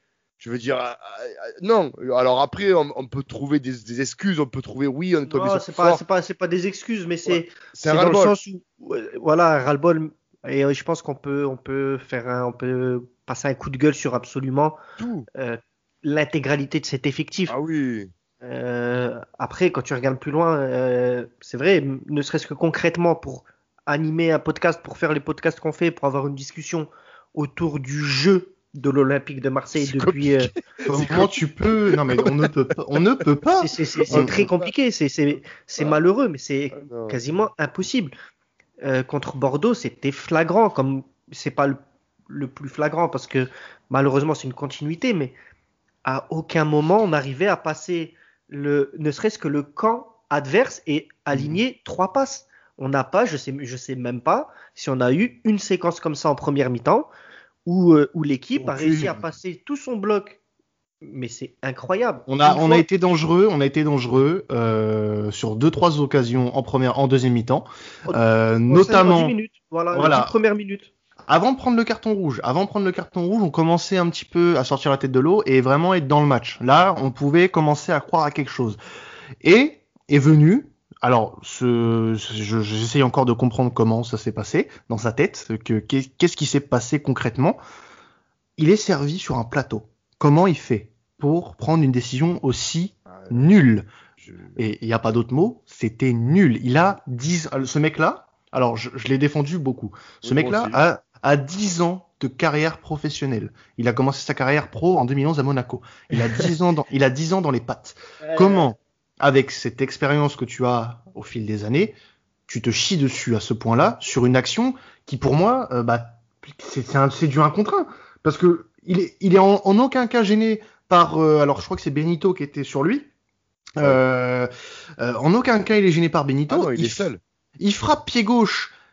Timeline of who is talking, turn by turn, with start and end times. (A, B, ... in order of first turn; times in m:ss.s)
0:00.4-0:06.0 A
0:05.3-0:14.8 B
0:07.3-0:08.3 A
0:15.0-0:15.3 A
0:15.3-0:17.5 B
0:17.5-0:18.1 A
0:18.4-0:30.5 B
0:29.7-0:31.4 A
0:30.9-0:34.4 C
0:31.9-0:32.5 A
0:33.6-0:38.1 B
0:34.1-0:34.6 A
0:36.7-0:37.2 A
0:38.8-0:41.8 B
0:42.3-0:45.3 B
0:46.0-0:57.1 B
0:57.6-1:00.4 B
0:58.6-0:59.2 C
1:01.0-1:02.8 B
1:02.3-1:09.3 C
1:08.0-1:10.9 B
1:09.9-1:10.3 C
1:11.3-1:18.8 C
1:19.4-1:27.6 C
1:28.6-1:33.9 C
1:33.1-1:33.4 A
1:34.2-1:34.6 A
1:34.6-1:52.0 C
1:40.2-1:40.8 A
1:48.2-1:48.7 B
1:52.5-2:03.1 C
2:03.7-2:07.1 C
2:06.5-2:07.2 A
2:07.6-2:08.7 C